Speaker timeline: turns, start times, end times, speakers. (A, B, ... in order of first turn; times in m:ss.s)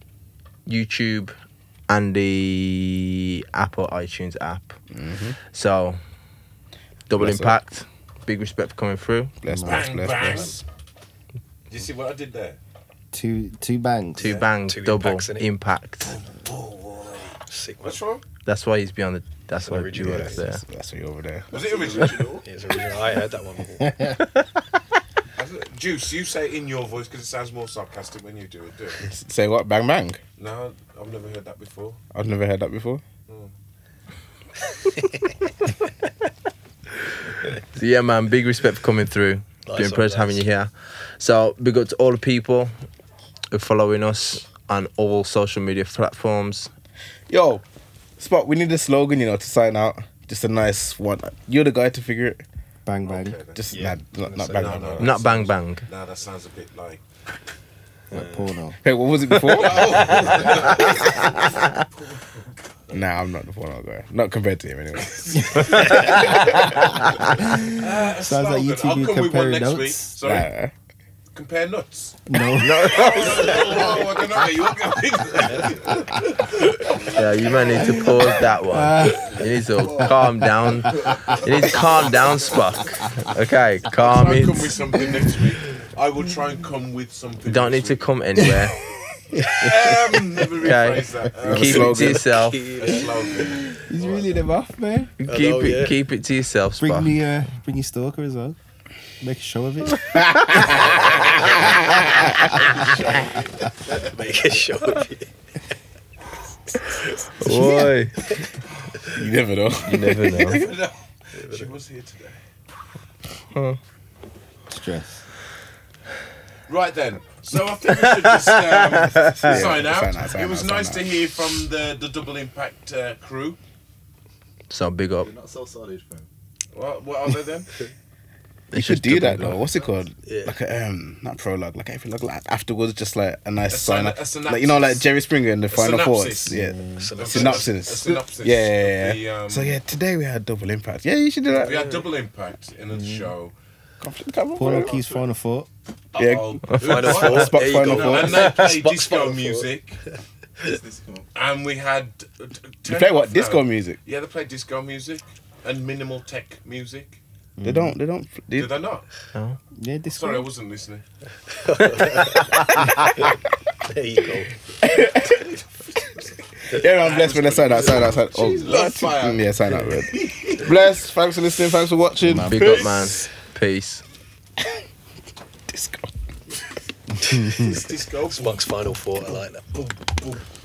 0:00.6-0:01.4 A
0:01.9-0:04.8 A
0:04.9-0:05.4 B
0:05.5-0:06.0 A
0:07.1-0:09.3 A
0:07.1-0:07.6 B
0:09.4-0:10.6 B
0:09.4-0:10.0 C
0:09.6-0:10.6 D
0:11.7-0:12.6 D
0:13.1-0:14.4 C
0:14.2-0:16.1 A
0:14.2-0:14.5 D
0:14.7-0:15.5 E
0:16.1-0:18.2 D
0:17.5-0:18.0 E
0:18.4-0:20.6 A
0:19.6-0:20.4 E
0:19.9-0:21.5 B
0:21.5-0:22.4 D
0:21.6-0:22.4 F
0:22.4-0:23.9 E
0:23.8-0:24.3 C
0:25.4-0:29.0 D
0:29.1-0:30.2 B
0:30.4-0:32.0 D
0:32.1-0:33.0 B
0:33.3-0:33.5 D
0:37.7-0:42.7 A
0:39.6-0:40.4 E
0:43.5-0:46.7 A
0:47.3-0:47.6 B
0:48.2-0:52.4 B
0:52.8-0:53.4 C
0:53.0-0:53.8 D
0:53.5-0:55.2 B
0:53.7-0:54.9 E
0:54.4-0:57.0 D
0:55.0-0:55.9 A
0:58.1-0:58.8 C
0:58.8-1:00.2 B
0:59.3-1:01.8 A
0:59.4-1:02.2 D
1:02.9-1:06.0 B
1:05.0-1:06.8 D
1:05.4-1:10.2 C
1:05.6-1:07.3 A
1:07.7-1:10.5 D
1:10.2-1:10.7 B
1:11.3-1:12.2 D
1:12.3-1:13.2 C
1:12.6-1:13.9 A
1:12.8-1:18.0 D
1:13.6-1:14.0 F
1:17.1-1:24.7 A
1:17.9-1:19.3 C
1:19.1-1:20.1 D
1:20.9-1:22.5 D
1:23.9-1:28.1 D
1:25.0-1:25.3 C
1:27.4-1:28.8 A
1:29.4-1:34.4 D
1:29.5-1:30.1 C
1:30.6-1:32.6 A
1:31.4-1:32.3 B
1:32.0-1:33.2 E
1:33.7-1:35.1 C
1:35.2-1:37.2 A
1:35.2-1:36.0 E
1:36.8-1:38.6 C
1:39.2-1:42.9 C
1:40.1-1:42.4 B
1:40.9-1:41.5 D
1:42.8-1:44.6 F
1:42.8-1:43.3 D
1:43.9-1:45.3 E
1:46.8-1:48.4 E
1:47.4-1:48.2 A
1:49.1-1:50.7 B
1:49.8-1:50.6 A
1:50.4-1:52.4 D
1:51.4-1:51.7 E
1:53.5-1:53.8 A
1:54.7-1:55.2 C
1:56.7-2:03.6 D
1:58.3-1:59.5 A
1:59.4-2:01.2 B
2:04.7-2:05.3 A
2:05.2-2:06.3 F
2:06.7-2:07.7 D
2:08.7-2:09.6 A
2:08.7-2:22.0 B
2:10.2-2:10.6 E
2:13.7-2:15.1 D
2:15.7-2:16.6 D
2:16.5-2:17.1 C
2:17.0-2:17.7 E
2:17.1-2:19.8 D
2:21.5-2:23.5 D
2:22.9-2:23.3 C
2:24.0-2:25.0 B
2:24.6-2:25.7 C
2:24.6-2:25.2 D
2:26.1-2:30.0 D
2:26.2-2:28.4 B
2:26.8-2:29.7 E
2:30.6-2:31.3 F
2:31.3-2:37.2 D
2:32.8-2:34.0 B
2:37.6-2:38.0 C
2:37.6-2:38.8 B
2:38.5-2:39.1 D
2:39.8-2:40.5 C
2:40.1-2:41.0 D
2:41.6-2:42.7 E
2:42.4-2:42.9 A
2:43.8-2:44.5 E
2:44.8-2:45.6 B
2:46.7-2:52.8 B
2:47.0-2:50.8 D
2:52.2-2:52.9 C
2:52.5-2:54.0 A
2:52.6-2:53.2 D
2:55.7-2:56.1 B
2:57.2-2:57.8 C
2:57.5-2:59.0 D
2:58.3-2:59.7 E
2:59.7-3:00.4 D